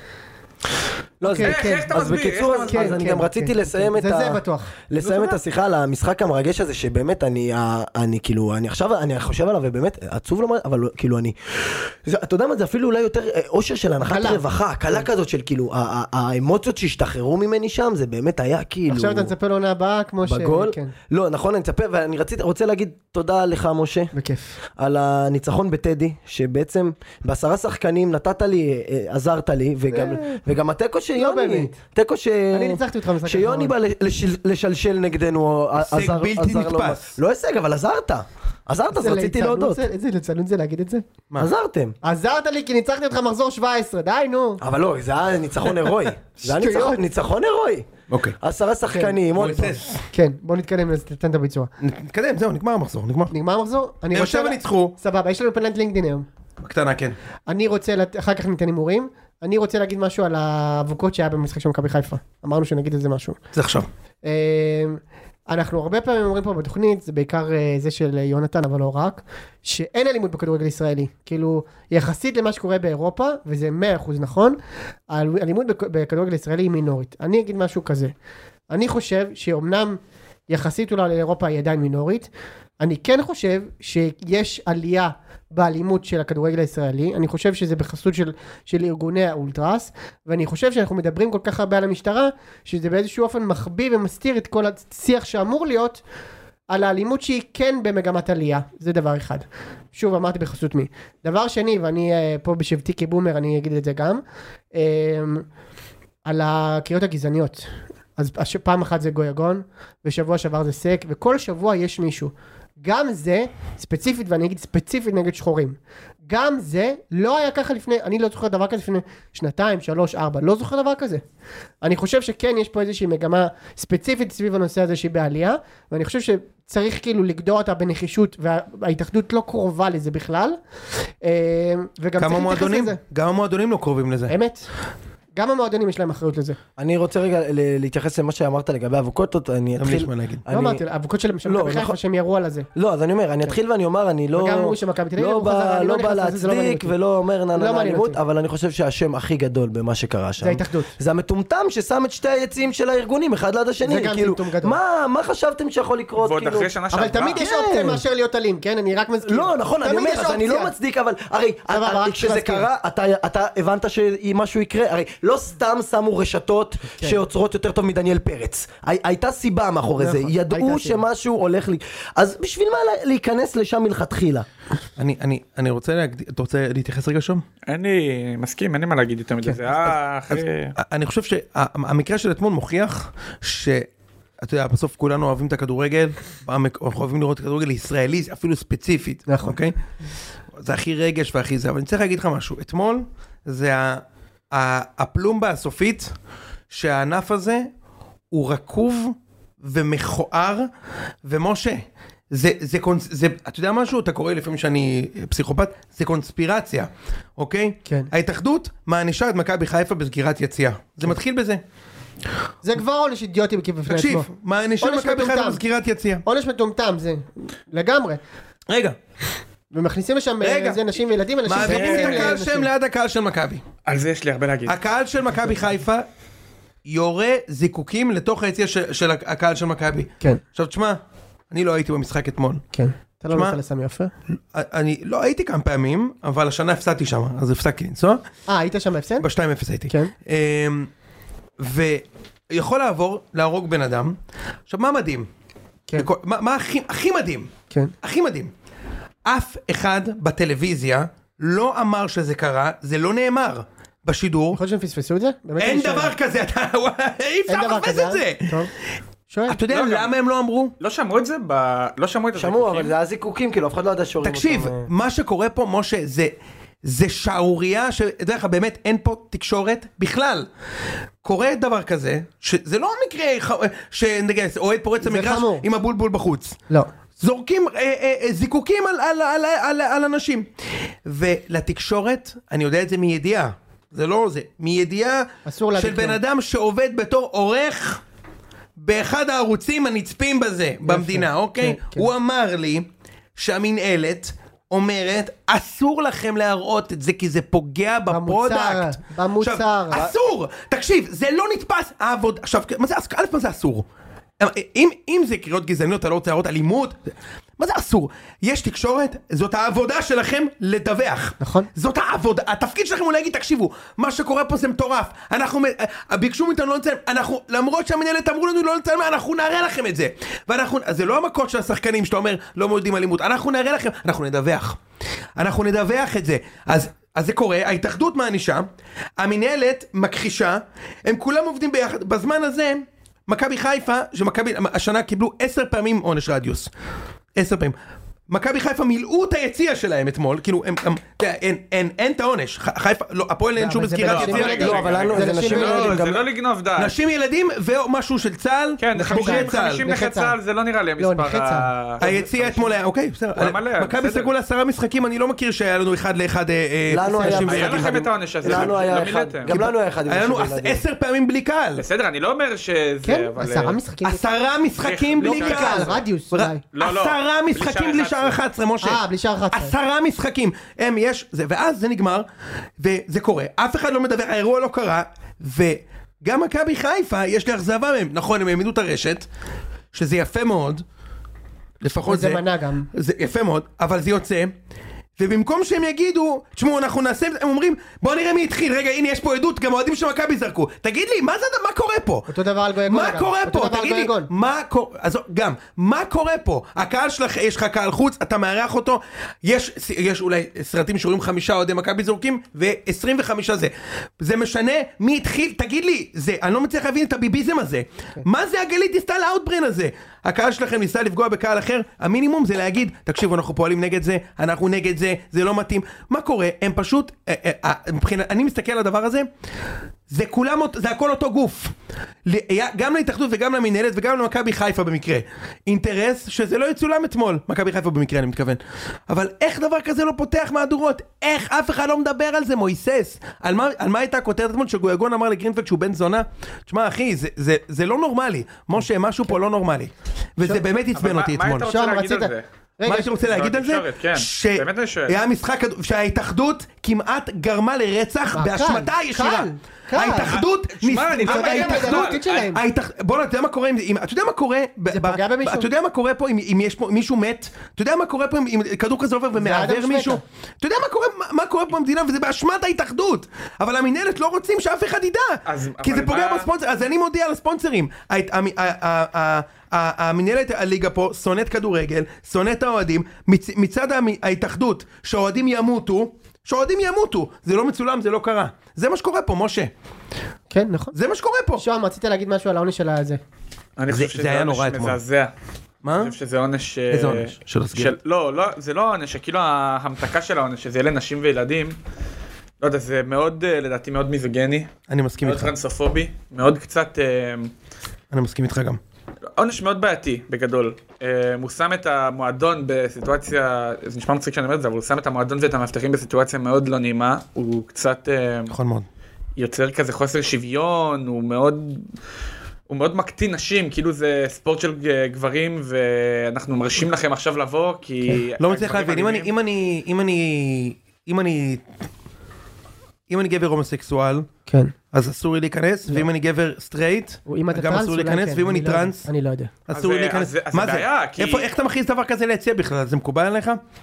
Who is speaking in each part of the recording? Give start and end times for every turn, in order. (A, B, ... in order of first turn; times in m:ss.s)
0:01.2-0:19.3 A
0:01.2-0:02.1 B
0:01.4-0:03.0 C
0:02.7-0:05.4 B
0:14.0-0:14.4 B
0:18.9-0:20.9 B
0:20.2-0:24.1 A
0:24.1-0:24.6 B
0:24.8-0:39.8 A
0:29.9-0:30.2 B
0:31.2-0:31.7 B
0:32.5-0:33.7 B
0:35.8-0:37.2 D
0:39.0-0:41.0 B
0:41.4-0:42.0 A
0:42.0-0:44.6 B
0:44.6-0:47.9 A
0:46.4-0:47.0 B
0:48.1-0:48.4 D
0:48.4-0:49.7 A
0:48.9-0:49.2 B
0:49.3-0:50.0 D
0:50.1-0:51.7 B
0:51.8-0:53.3 D
0:53.3-0:56.3 B
0:54.1-0:54.9 D
0:56.6-0:57.1 D
0:57.5-1:03.4 B
1:03.5-1:03.9 D
1:04.2-1:14.6 B
1:15.1-1:18.1 B
1:18.7-1:36.0 B
1:36.7-1:44.2 B
1:44.7-1:45.4 B
1:46.2-2:01.2 B
2:01.8-2:10.6 B
2:11.2-2:13.0 B
2:12.2-2:14.3 D
2:14.3-2:14.6 B
2:15.3-2:16.6 B
2:16.8-2:20.8 A
2:19.8-2:20.4 D
2:20.5-2:22.7 B
2:21.4-2:22.0 A
2:22.7-2:36.7 A
2:24.3-2:26.9 B
2:27.6-2:28.2 B
2:30.4-2:30.9 B
2:33.8-2:34.8 B
2:36.2-2:37.4 C
2:36.9-2:40.7 B
2:37.2-2:38.0 A
2:39.2-2:54.4 A
2:41.7-2:42.6 B
2:50.0-2:51.0 B
2:55.0-2:57.4 D
2:57.7-3:00.7 C
3:00.8-3:03.9 D
3:04.4-3:09.7 D
3:09.3-3:09.6 B
3:10.6-3:16.1 D
3:16.7-3:17.7 D
3:18.3-3:20.7 D
3:21.2-3:31.6 D
3:32.6-3:34.3 B
3:33.8-3:36.2 D
3:34.8-3:35.6 B
3:36.2-3:38.2 B
3:38.7-3:39.0 D
3:39.7-3:42.7 B
3:40.4-3:40.8 D
3:41.4-3:43.6 D
3:41.6-3:42.3 C
3:43.8-3:44.8 C
3:44.7-3:46.0 D
3:46.8-3:51.0 D
3:51.5-3:52.6 D
3:52.7-3:54.1 B
3:53.3-3:53.6 D
3:54.5-3:58.2 D
3:58.5-3:59.2 B
3:59.2-4:00.9 D
4:01.6-4:04.2 D
4:04.7-4:05.3 D
4:06.0-4:07.5 D
4:08.0-4:08.5 D
4:09.2-4:14.6 D
4:14.6-4:16.1 B
4:15.6-4:18.6 D
4:17.5-4:18.7 B
4:19.3-4:19.6 B
4:19.5-4:20.7 D
4:19.7-4:20.1 C
4:20.8-4:22.9 C
4:22.4-4:24.9 A
4:24.2-4:26.3 D
4:26.8-4:30.5 D
4:31.2-4:36.6 D
4:35.0-4:35.6 B
4:37.2-4:40.5 D
4:41.0-4:48.0 D
4:45.4-4:46.2 B
4:48.8-5:03.8 D
4:50.8-4:52.1 B
4:58.1-5:00.0 B
5:04.4-5:07.0 D
5:07.6-5:24.8 D
5:11.4-5:11.7 B
5:25.4-5:28.7 D
5:29.2-5:36.7 D
5:37.4-5:37.7 D
5:38.3-5:45.1 D
5:43.6-5:46.0 B
5:44.0-5:46.9 C
5:44.4-5:46.2 A
5:46.8-5:49.8 D
5:48.8-5:52.1 C
5:48.9-5:50.4 B
5:51.0-5:51.7 B
5:52.0-5:58.9 D
5:53.4-5:54.3 C
5:56.9-6:00.8 A
5:57.1-5:57.5 B
5:57.2-5:59.6 C
5:59.5-6:01.8 D
6:01.8-6:03.8 C
6:03.0-6:04.2 B
6:04.0-6:12.2 D
6:04.8-6:06.0 C
6:05.2-6:06.6 B
6:06.7-6:08.4 C
6:08.8-6:09.7 B
6:12.8-6:19.3 D
6:19.9-6:20.8 D
6:21.8-6:24.5 D
6:22.0-6:22.9 B
6:25.2-6:32.3 D
6:32.3-6:34.3 B
6:32.9-6:59.3 D
7:00.1-7:01.7 D
7:02.2-7:21.7 D
7:20.9-7:22.4 C
7:21.7-7:23.1 B
7:22.8-7:59.7 D
7:23.2-7:25.2 C
7:28.3-7:30.3 B
7:30.2-7:32.5 C
7:31.2-7:32.6 B
7:34.9-7:35.7 B
7:39.4-7:40.2 B
7:45.4-7:46.5 C
8:00.5-8:00.9 B
8:00.9-8:01.6 D
8:01.6-8:03.2 B
8:03.8-8:05.3 C
8:03.9-8:05.0 D
8:05.8-8:06.1 D
8:06.0-8:11.8 C
8:06.9-8:07.9 D
8:12.6-8:14.7 C
8:14.9-8:15.5 D
8:15.2-8:17.5 C
8:18.1-8:18.8 D
8:19.4-8:28.5 C
8:28.5-8:28.8 D
8:29.4-8:31.8 C
8:32.7-8:39.3 C
8:38.4-8:41.6 D
8:43.1-8:44.3 D
8:44.5-8:44.7 B
8:44.9-8:49.1 D
8:47.3-8:49.5 B
8:49.7-8:53.6 D
8:49.7-8:51.5 C